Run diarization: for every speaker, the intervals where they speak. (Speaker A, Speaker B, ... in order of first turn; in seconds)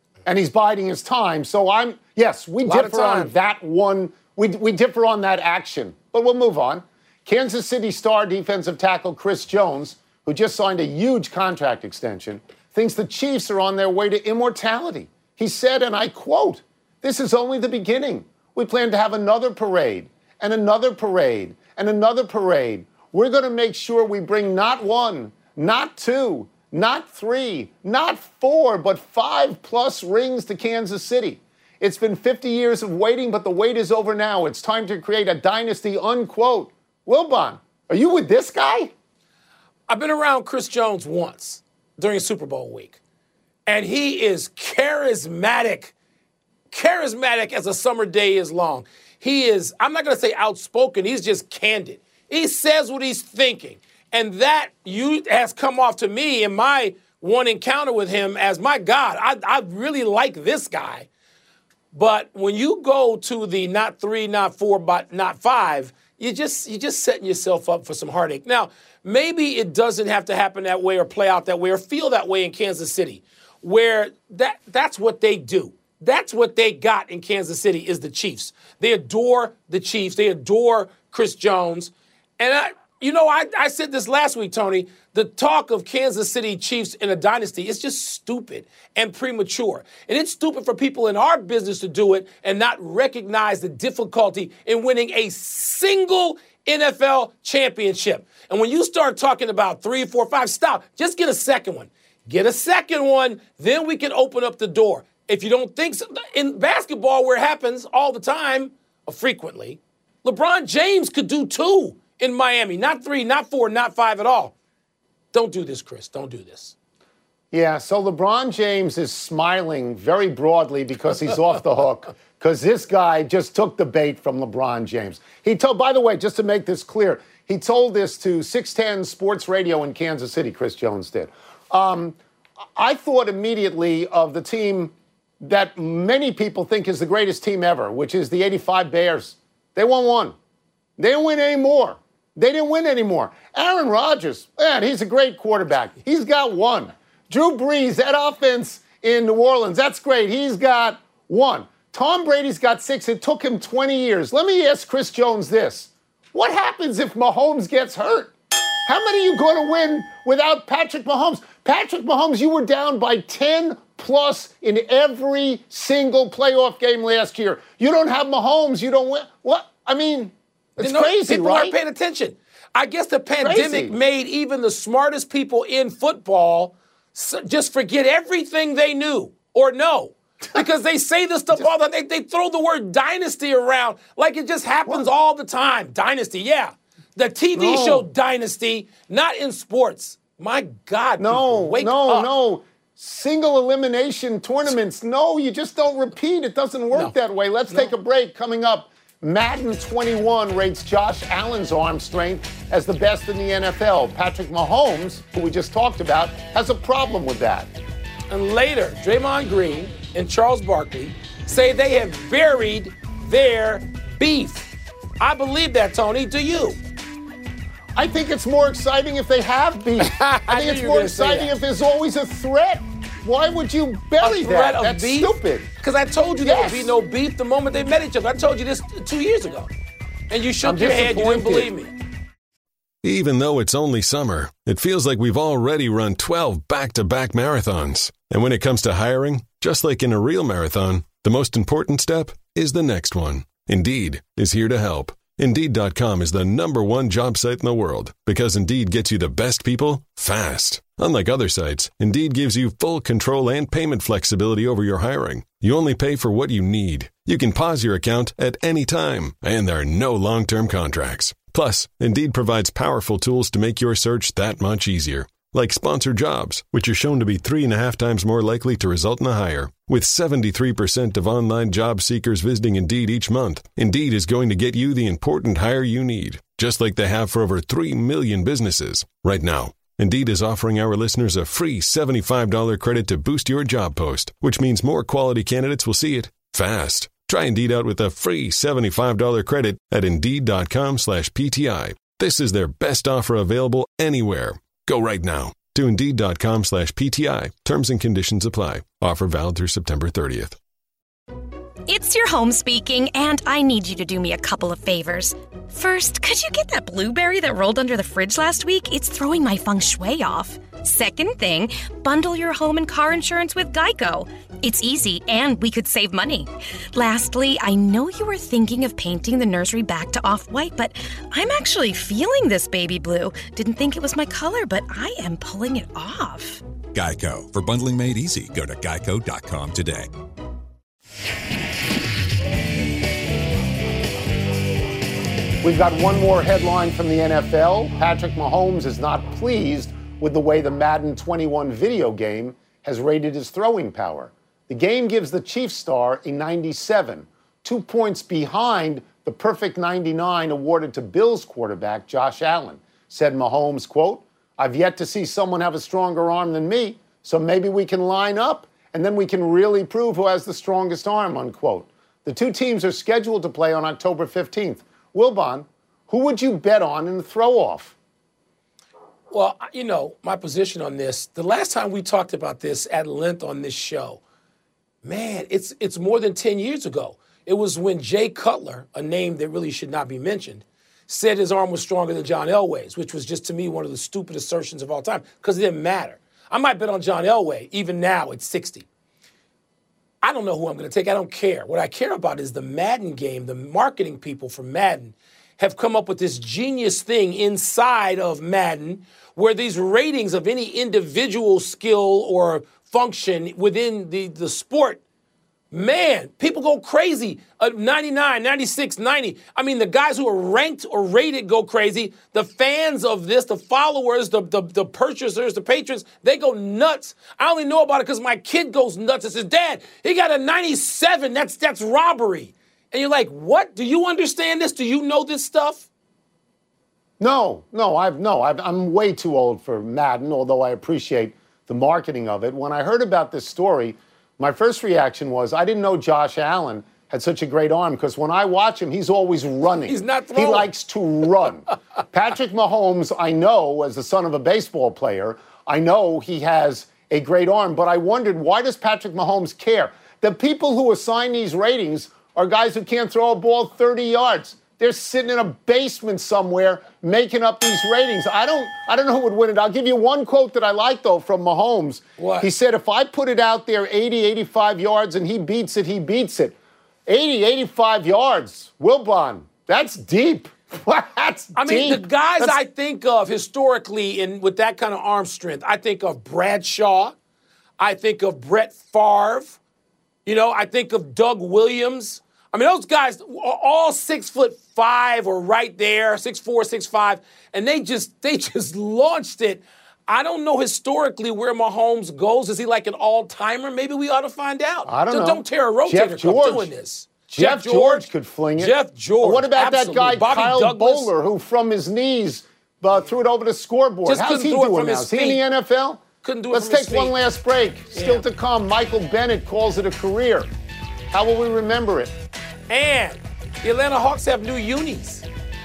Speaker A: 0.2-38.9, 117.5-132.2, 132.8-140.3, 141.0-158.3, 158.8-171.8, 173.4-173.9, 187.5-188.1, 191.2-207.7, 217.9-225.7, 226.4-226.9, 230.6-231.7, 335.6-367.9, 427.2-466.5, 467.1-472.6, 494.9-496.7, 497.3-510.5, 511.1-512.1
Speaker B: 2.6-3.3, 39.9-43.0, 43.6-45.9, 46.7-61.1, 61.9-114.5, 115.3-116.7, 170.8-192.3, 208.3-214.7, 215.2-216.8, 220.0-221.5, 224.2-229.7, 230.3-231.9, 369.3-374.2, 375.0-388.9, 390.2-405.0, 405.7-425.9, 439.9-440.7, 462.2-462.5, 471.5-477.1, 477.8-479.6, 480.2-501.1, 504.0-505.4, 506.2-507.2, 507.9-508.2, 512.7-515.2
Speaker C: 233.0-300.6
Speaker D: 301.9-326.6
Speaker E: 326.9-330.1